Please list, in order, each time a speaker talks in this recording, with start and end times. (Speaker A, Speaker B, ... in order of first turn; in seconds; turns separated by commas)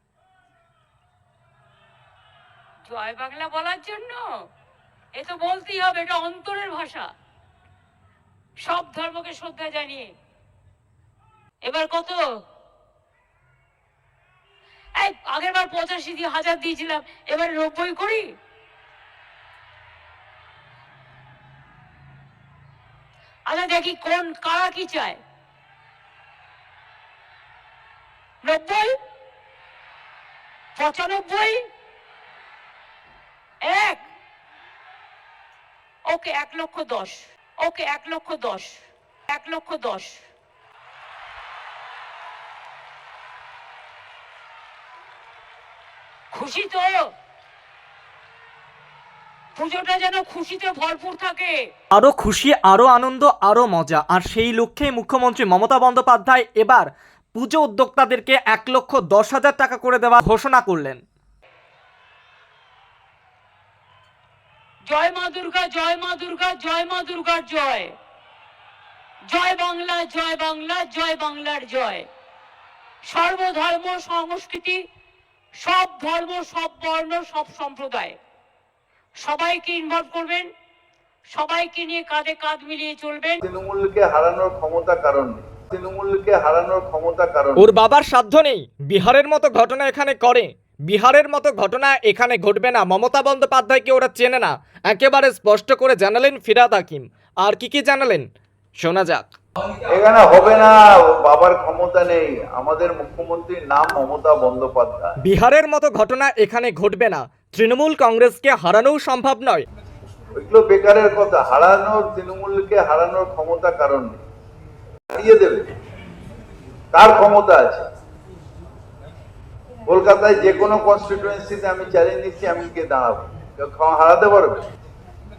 Speaker A: 2.9-4.2, Speaker A: 5.2-7.1, Speaker A: 8.7-10.1, Speaker A: 11.7-12.2, Speaker A: 15.0-18.2, Speaker A: 23.5-25.2, Speaker A: 28.4-28.9, Speaker A: 30.8-31.6, Speaker A: 33.6-34.0, Speaker A: 36.1-40.2, Speaker A: 46.3-46.9, Speaker A: 49.6-51.6, Speaker B: 51.9-61.0, Speaker A: 64.9-67.9, Speaker A: 69.3-72.1, Speaker A: 73.1-74.8, Speaker A: 75.6-78.2, Speaker A: 79.2-80.5, Speaker A: 81.3-83.4, Speaker C: 83.4-87.7, Speaker B: 87.6-99.3, Speaker C: 99.9-105.2, Speaker B: 105.2-109.7, Speaker C: 110.4-114.2, Speaker C: 115.1-115.7, Speaker C: 116.9-117.9, Speaker C: 119.9-124.7